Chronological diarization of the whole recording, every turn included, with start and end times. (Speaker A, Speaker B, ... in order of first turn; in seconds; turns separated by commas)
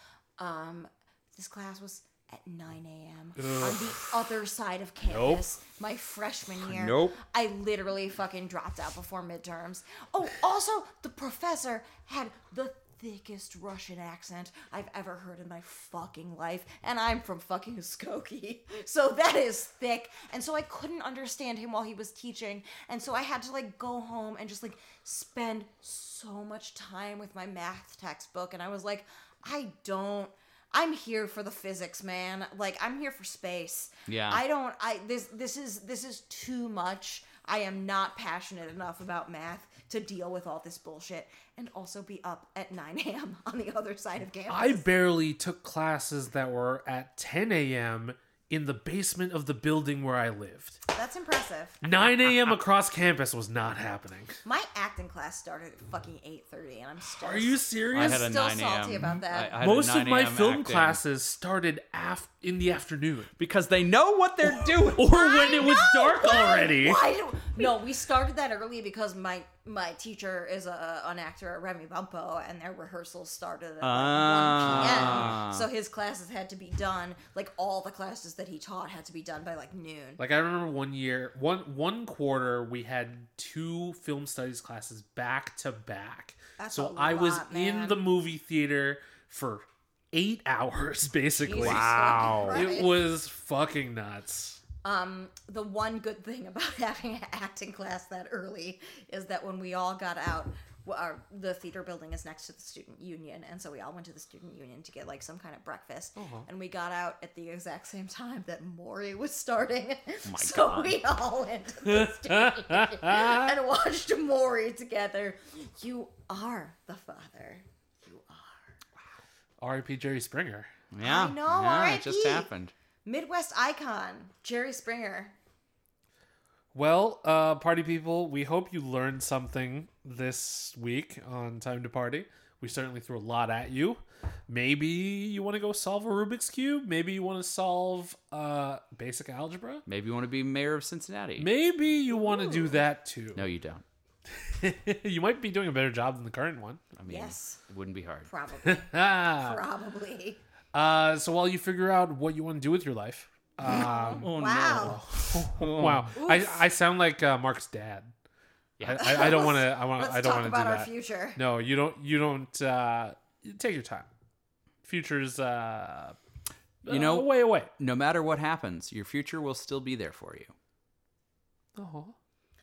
Speaker A: 0.4-44.9, Speaker B: 3.4-4.1, Speaker B: 5.1-5.4, Speaker C: 6.6-7.2, Speaker C: 34.1-34.4, Speaker B: 44.5-50.8, Speaker A: 50.9-51.8, Speaker B: 51.8-54.4, Speaker A: 54.4-59.6, Speaker B: 57.2-58.3, Speaker C: 57.9-61.0, Speaker B: 59.6-63.3, Speaker C: 63.4-65.2, Speaker B: 64.4-67.0, Speaker A: 65.1-80.2, Speaker C: 73.8-75.7, Speaker B: 74.7-75.4, Speaker B: 80.2-94.6, Speaker A: 86.6-88.0, Speaker A: 91.4-93.0, Speaker C: 91.5-92.7, Speaker A: 94.8-118.8, Speaker B: 106.2-106.5, Speaker C: 110.2-111.0, Speaker B: 111.9-113.5, Speaker B: 119.6-120.7, Speaker C: 120.9-122.7, Speaker A: 121.0-122.5, Speaker A: 123.0-125.3, Speaker B: 126.7-139.8, Speaker C: 139.8-141.5, Speaker B: 141.4-143.4, Speaker A: 142.1-142.8, Speaker C: 143.3-143.8, Speaker B: 144.4-146.8, Speaker C: 146.9-148.3, Speaker A: 147.1-147.6, Speaker A: 148.3-150.4, Speaker B: 148.6-149.6, Speaker B: 150.7-158.1, Speaker A: 153.6-155.0, Speaker C: 153.6-156.1, Speaker A: 156.2-156.6, Speaker C: 158.8-159.3, Speaker B: 158.8-164.1, Speaker A: 158.9-161.4, Speaker B: 164.8-166.2, Speaker B: 166.8-167.7, Speaker C: 166.8-170.5, Speaker B: 171.8-172.1